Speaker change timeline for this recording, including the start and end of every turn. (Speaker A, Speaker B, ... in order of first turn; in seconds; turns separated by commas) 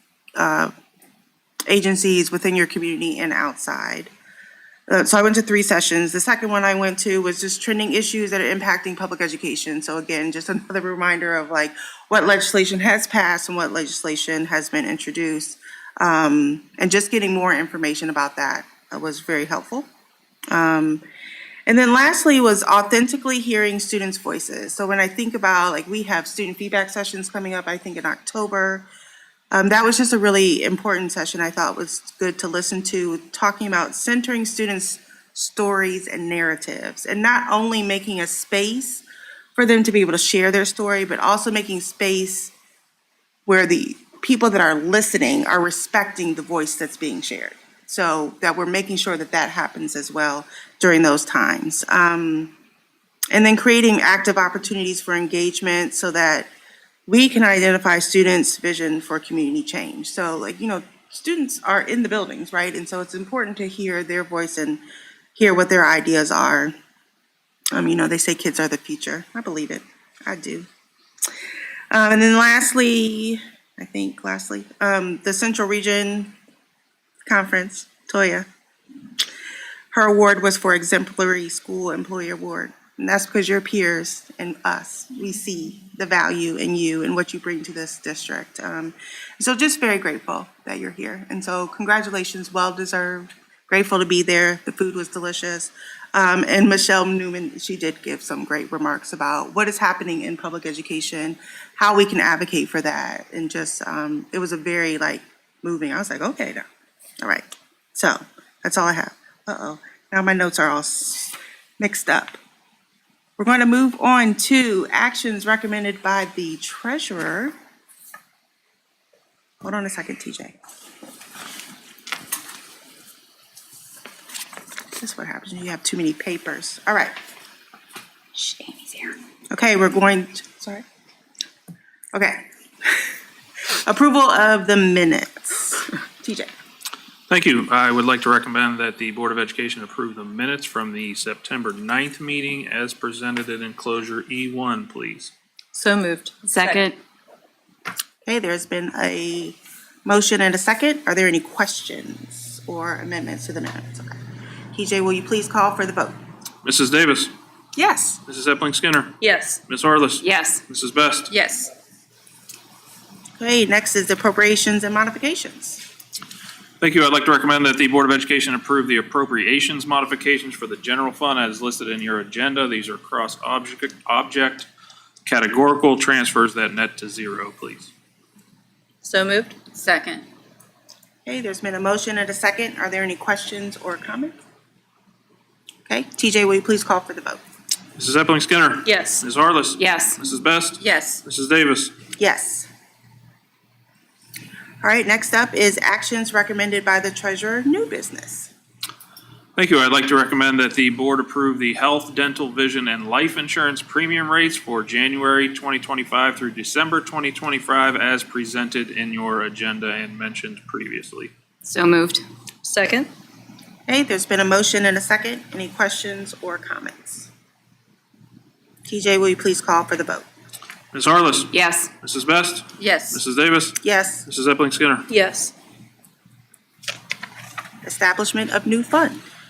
Speaker A: 0.4-0.7, Speaker A: 1.7-4.1, Speaker A: 4.9-19.9, Speaker A: 20.5-21.0, Speaker A: 21.7-28.9, Speaker A: 29.5-39.0, Speaker A: 39.5-42.5, Speaker A: 43.5-52.5, Speaker A: 53.3-56.5, Speaker A: 57.1-64.8, Speaker A: 65.4-66.7, Speaker A: 67.7-70.7, Speaker A: 71.9-76.3, Speaker A: 77.3-78.5, Speaker A: 79.9-106.7, Speaker A: 107.2-112.4, Speaker A: 113.4-117.5, Speaker A: 119.6-120.6, Speaker A: 125.0-127.2, Speaker A: 129.5-130.8, Speaker A: 132.1-132.4, Speaker A: 133.8-136.5, Speaker B: 137.3-145.3, Speaker C: 145.7-146.8, Speaker D: 146.5-147.0, Speaker A: 148.2-154.2, Speaker A: 154.7-156.2, Speaker B: 156.6-157.3, Speaker A: 157.8-158.2, Speaker B: 158.3-161.3, Speaker C: 159.2-159.6, Speaker D: 160.2-160.6, Speaker C: 161.3-161.7, Speaker A: 163.4-165.8, Speaker B: 166.8-174.7, Speaker B: 175.2-177.9, Speaker C: 179.0-180.2, Speaker A: 181.3-184.4, Speaker A: 185.9-187.4, Speaker B: 188.0-191.9, Speaker C: 188.9-189.2, Speaker D: 189.8-190.2, Speaker C: 190.8-191.2, Speaker A: 192.2-192.7, Speaker A: 194.8-198.5, Speaker B: 199.6-211.3, Speaker D: 211.6-212.2, Speaker C: 212.6-213.1, Speaker A: 213.9-217.3, Speaker A: 218.8-220.3, Speaker B: 220.9-225.1, Speaker D: 221.5-221.9, Speaker C: 222.8-223.2, Speaker A: 223.8-224.3, Speaker C: 225.1-225.5, Speaker A: 227.8-229.2